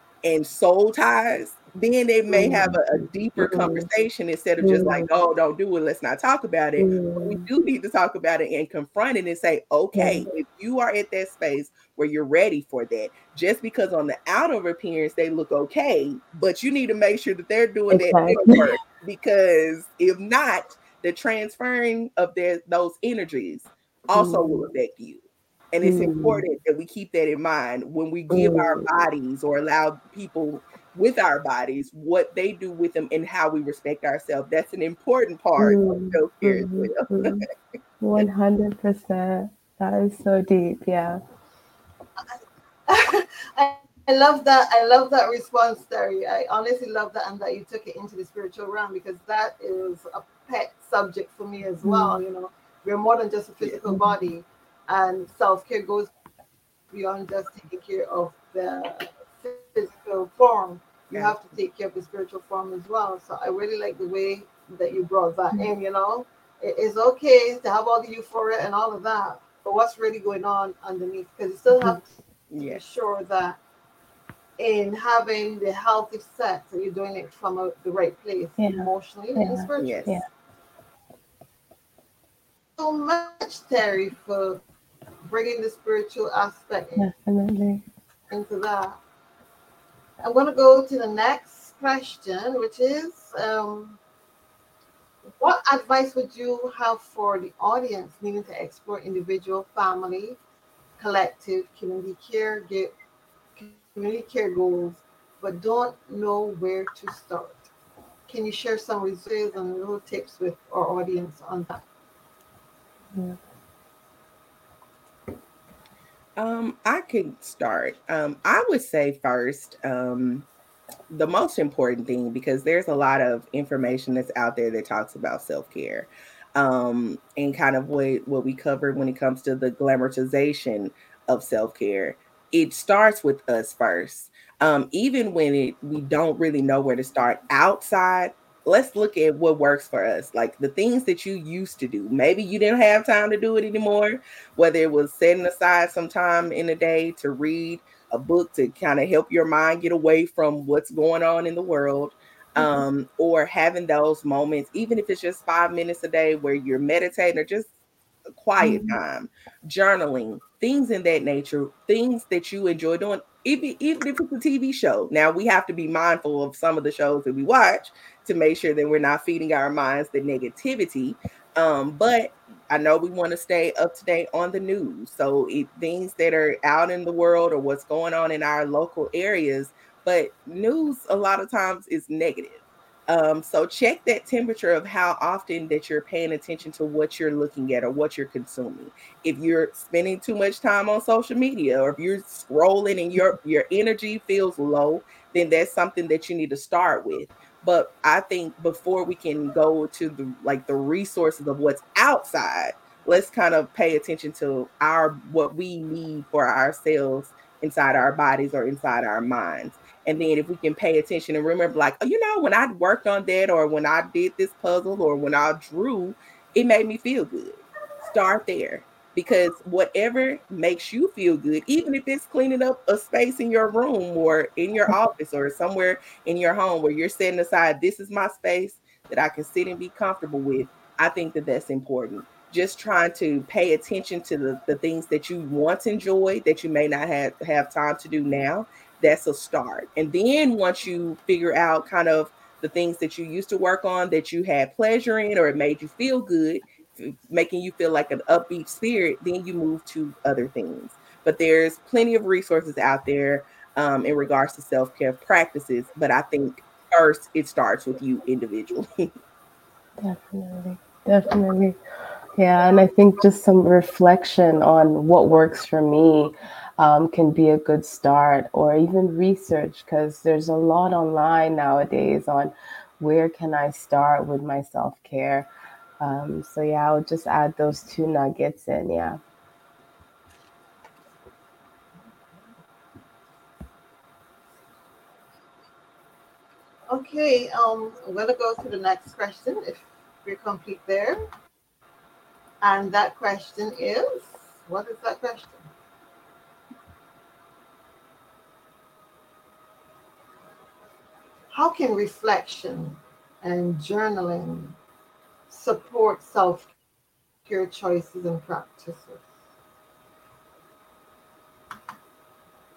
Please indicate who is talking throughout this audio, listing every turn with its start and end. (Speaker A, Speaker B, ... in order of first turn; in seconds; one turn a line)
Speaker A: 0.2-37.4
Speaker B: 2.3-2.8
Speaker B: 3.4-3.9
Speaker B: 4.6-5.1
Speaker B: 6.8-7.5
Speaker B: 9.9-10.3
Speaker B: 17.9-18.7
Speaker B: 24.1-24.6
Speaker B: 25.8-26.4
Speaker B: 28.3-28.9
Speaker B: 35.6-37.5
Speaker B: 38.0-41.2
Speaker C: 42.3-56.1
Speaker B: 51.8-52.2
Speaker C: 56.9-72.1
Speaker A: 61.1-61.4
Speaker A: 72.5-72.8
Speaker C: 72.6-73.6
Speaker C: 74.6-80.1
Speaker B: 78.6-80.2
Speaker A: 79.8-80.2
Speaker C: 82.8-84.6
Speaker C: 85.2-87.1
Speaker B: 87.0-87.8
Speaker C: 88.3-89.0
Speaker C: 90.2-94.0
Speaker C: 95.4-100.4
Speaker C: 101.0-102.9
Speaker C: 103.5-107.7
Speaker C: 108.3-111.8
Speaker B: 113.1-113.4
Speaker A: 116.4-120.5
Speaker A: 121.1-157.7
Speaker B: 152.6-152.8
Speaker A: 158.3-259.1
Speaker B: 158.6-159.0
Speaker B: 260.0-261.8
Speaker B: 262.4-275.5
Speaker B: 276.0-279.2
Speaker C: 286.9-291.2
Speaker C: 292.6-295.6
Speaker C: 301.5-304.8
Speaker C: 305.5-306.7
Speaker C: 307.4-309.2